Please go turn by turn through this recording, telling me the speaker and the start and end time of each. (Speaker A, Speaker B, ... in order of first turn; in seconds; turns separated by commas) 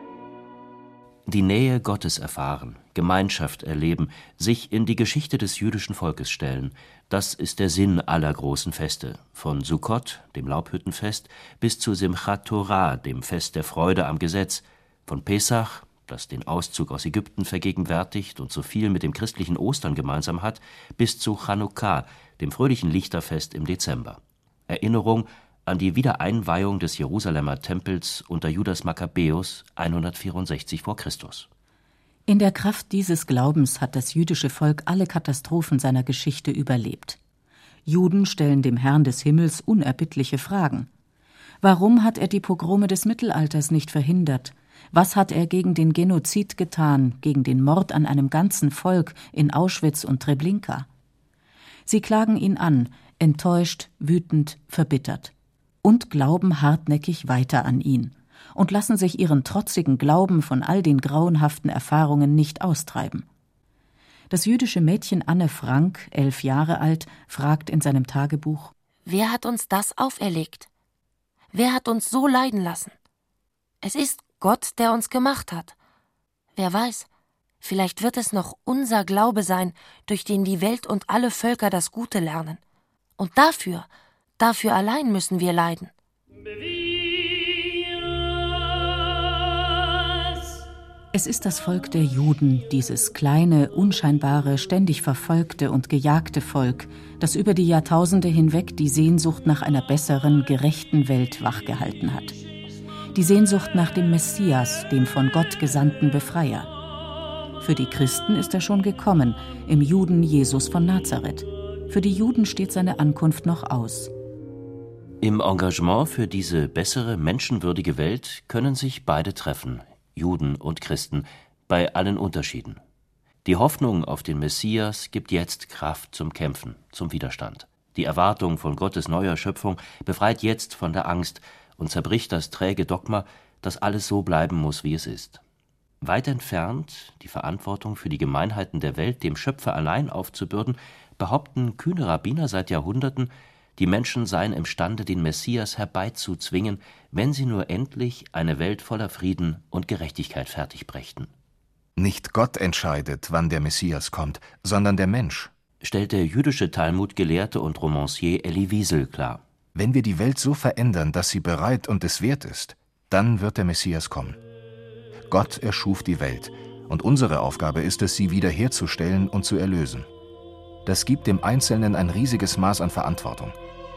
Speaker A: 1.3-31.5, Speaker B: 32.3-37.2, Speaker B: 37.9-40.9, Speaker B: 41.6-50.9, Speaker B: 51.9-63.2, Speaker B: 64.3-68.7, Speaker C: 69.0-70.7, Speaker C: 71.5-73.0, Speaker C: 73.8-75.7, Speaker C: 76.5-77.1, Speaker C: 77.6-82.6, Speaker C: 83.2-85.9, Speaker B: 91.1-102.4, Speaker B: 103.1-106.7, Speaker B: 107.6-114.1, Speaker A: 115.2-122.8, Speaker A: 123.5-135.4, Speaker A: 136.0-151.3, Speaker D: 152.0-155.5, Speaker A: 155.8-159.4, Speaker D: 159.8-164.4, Speaker D: 165.3-170.1, Speaker D: 170.8-173.6